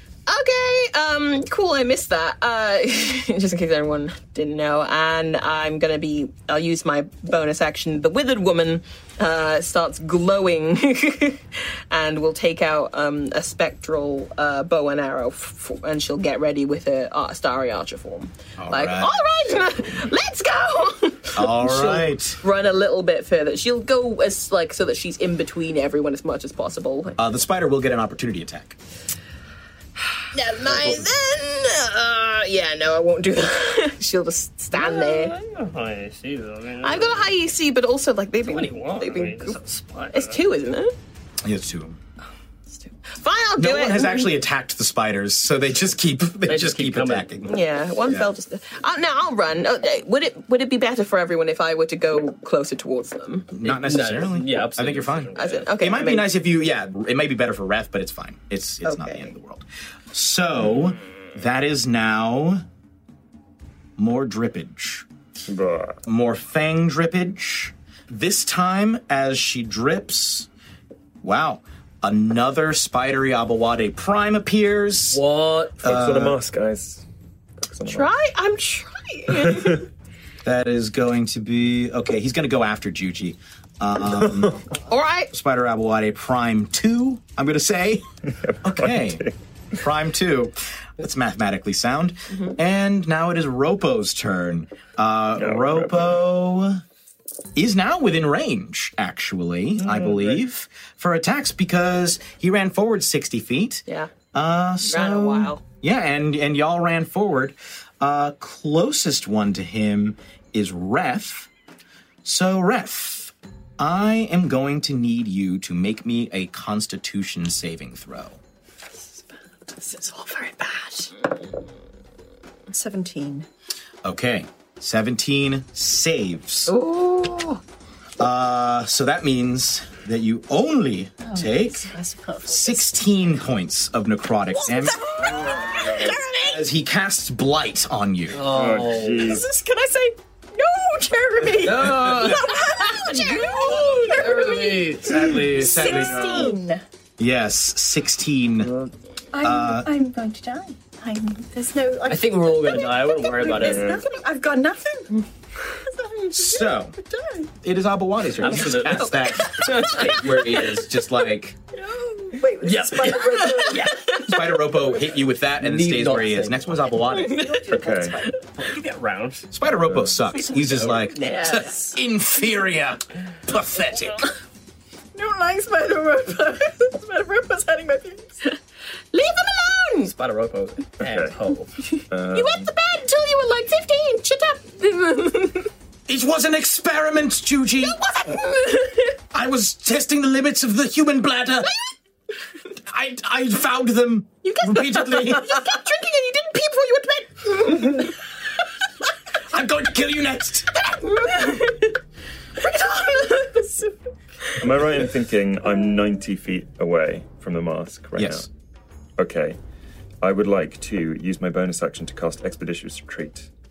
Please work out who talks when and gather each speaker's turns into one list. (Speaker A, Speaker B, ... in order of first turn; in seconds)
Speaker A: 0.3-27.2, 30.3-35.4, 36.8-39.6, 40.1-40.9, 42.8-44.3, 47.5-53.5, 55.4-56.3, 58.8-59.3, 77.9-79.9, 84.9-85.3, 103.9-104.1, 104.8-105.6, 126.7-127.6, 158.6-160.2, 167.3-167.7, 171.2-172.0, 179.1-180.1, 182.3-185.7, 187.8-189.1, 194.4-198.2, 201.0-201.9
Speaker B: 18.6-19.2, 21.3-22.4, 27.2-28.8, 30.6-31.1, 41.4-42.0, 43.6-48.3, 53.5-62.6, 64.0-65.1, 66.0-70.5, 71.2-75.2, 75.8-76.4, 80.4-84.6, 85.3-88.1, 88.6-96.8, 97.5-111.5, 112.2-118.4, 124.0-126.7, 128.2-131.9, 132.5-135.1, 136.4-138.4, 145.0-146.6, 147.2-148.7, 149.4-149.9, 156.3-157.0, 157.6-161.6, 164.2-167.5, 169.5-174.3, 186.1-188.0, 189.3-191.7, 192.9-195.8, 199.5-200.8, 208.2-208.5
Speaker C: 34.7-37.3, 38.5-40.4, 46.5-47.4, 53.6-55.7, 75.1-75.8, 138.3-139.4, 141.6-145.9, 152.1-154.0, 158.4-160.3, 162.6-163.9, 165.6-166.7, 168.6-169.5, 180.1-181.7
Speaker D: 65.5-66.0, 75.8-77.0, 77.7-78.1, 79.4-79.8, 88.4-89.3, 95.4-96.2, 99.8-100.4, 138.4-139.5, 145.7-146.5, 153.5-154.0, 167.7-168.2, 169.9-170.1, 181.0-181.4, 182.1-182.7, 204.6-208.5, 209.2-209.6, 210.2-213.5
Speaker E: 119.7-121.1, 122.7-123.5, 131.2-133.0, 134.5-136.6, 139.2-146.8, 149.3-155.2, 155.8-157.5, 161.8-164.2, 167.2-168.3, 175.2-178.4, 202.6-204.0